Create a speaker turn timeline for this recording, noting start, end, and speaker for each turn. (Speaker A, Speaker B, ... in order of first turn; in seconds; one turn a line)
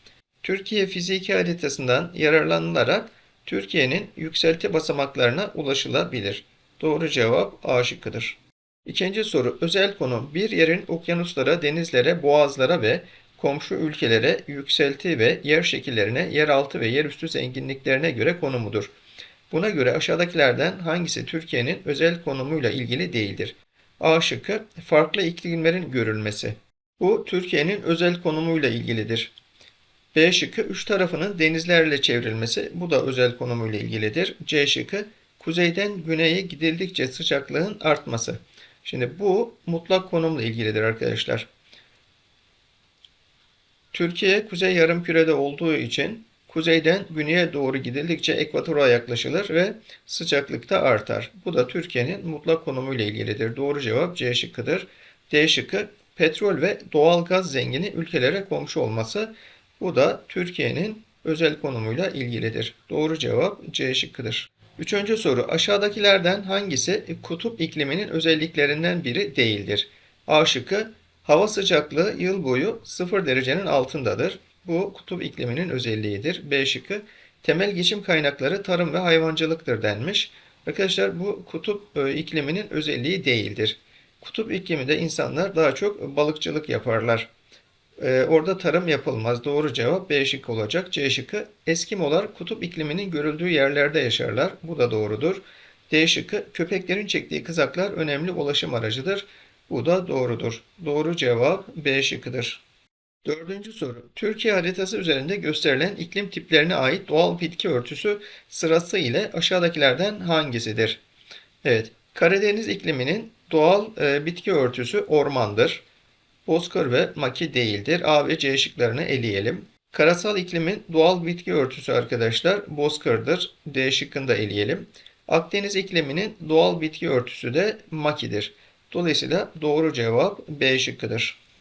Speaker A: 0.4-18.9
Speaker A: 19.5-29.3
Speaker A: 30.1-41.5
Speaker A: 43.9-87.3
Speaker A: 88.0-102.6
Speaker A: 103.2-111.0
Speaker A: 111.6-115.8
Speaker A: 116.5-131.4